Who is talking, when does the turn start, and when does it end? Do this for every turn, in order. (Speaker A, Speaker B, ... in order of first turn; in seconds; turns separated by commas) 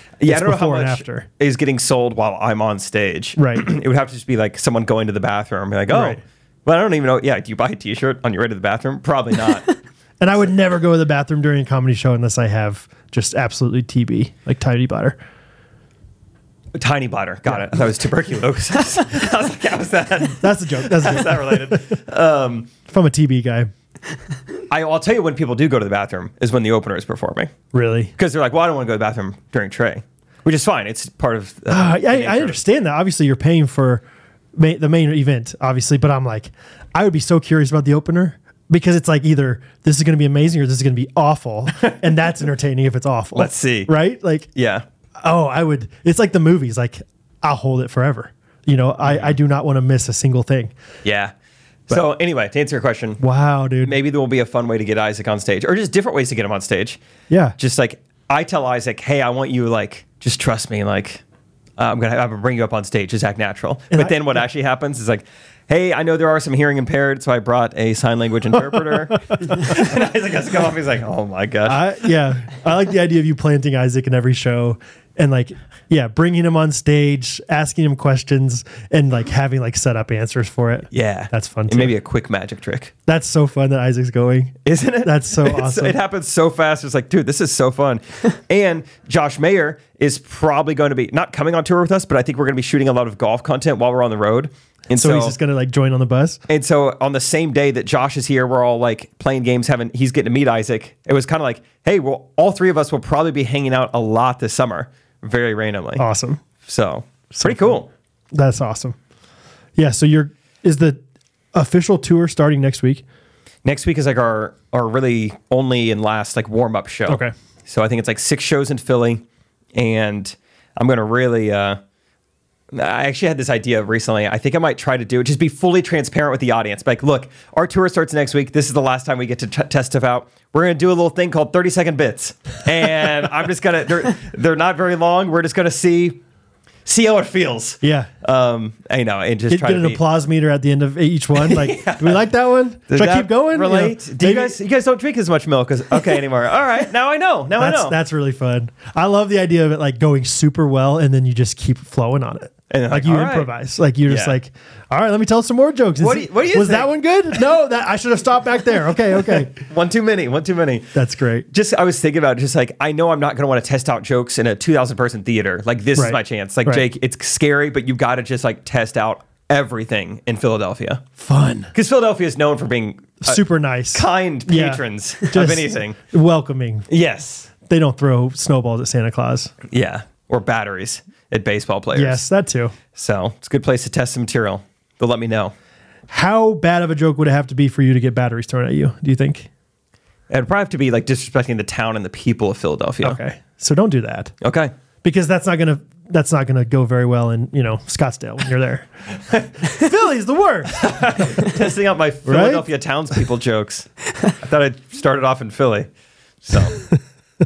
Speaker A: 0.2-9.7, Speaker B: 0.3-1.3, Speaker B: 3.4-3.7, Speaker B: 5.9-6.2, Speaker B: 10.2-15.2, Speaker A: 16.7-22.7, Speaker B: 20.4-22.0, Speaker B: 22.9-23.7, Speaker A: 24.7-27.5, Speaker B: 27.7-28.1, Speaker A: 28.2-32.6, Speaker B: 31.7-34.0, Speaker B: 34.6-44.5, Speaker A: 43.4-43.9, Speaker A: 44.5-44.9, Speaker B: 45.2-50.7, Speaker A: 49.0-49.3, Speaker A: 51.0-51.3, Speaker A: 51.9-53.2, Speaker B: 53.2-53.9, Speaker A: 53.8-57.0, Speaker B: 57.3-57.6, Speaker A: 57.6-61.2, Speaker A: 61.8-71.8, Speaker B: 63.9-64.4, Speaker B: 71.7-81.9, Speaker A: 80.9-82.9, Speaker B: 83.1-86.0, Speaker A: 84.7-95.4, Speaker B: 95.0-96.4, Speaker A: 96.5-106.0, Speaker B: 106.0-106.4, Speaker A: 106.6-107.9, Speaker B: 107.3-107.8, Speaker B: 108.3-109.0, Speaker B: 109.8-111.0, Speaker B: 111.5-113.0, Speaker A: 113.6-121.8, Speaker B: 117.1-117.3, Speaker A: 122.7-136.2, Speaker A: 136.9-140.0, Speaker B: 137.8-138.1, Speaker B: 139.5-144.6, Speaker A: 141.4-142.2, Speaker A: 142.9-148.0, Speaker B: 147.6-159.6, Speaker A: 152.7-153.5, Speaker A: 154.1-154.4, Speaker A: 156.0-156.9, Speaker A: 159.5-160.9, Speaker B: 160.9-161.5, Speaker A: 161.5-171.0, Speaker B: 166.0-166.9, Speaker B: 171.2-171.7, Speaker A: 171.7-176.0, Speaker B: 173.2-176.9, Speaker A: 176.9-177.5, Speaker B: 177.7-179.5, Speaker A: 179.7-182.2, Speaker B: 181.9-182.8, Speaker A: 182.9-185.5, Speaker B: 186.1-189.5, Speaker A: 190.3-193.2, Speaker B: 193.0-194.3, Speaker A: 194.4-194.7, Speaker B: 195.0-201.5, Speaker A: 200.7-205.9, Speaker B: 202.2-202.7, Speaker A: 206.4-206.8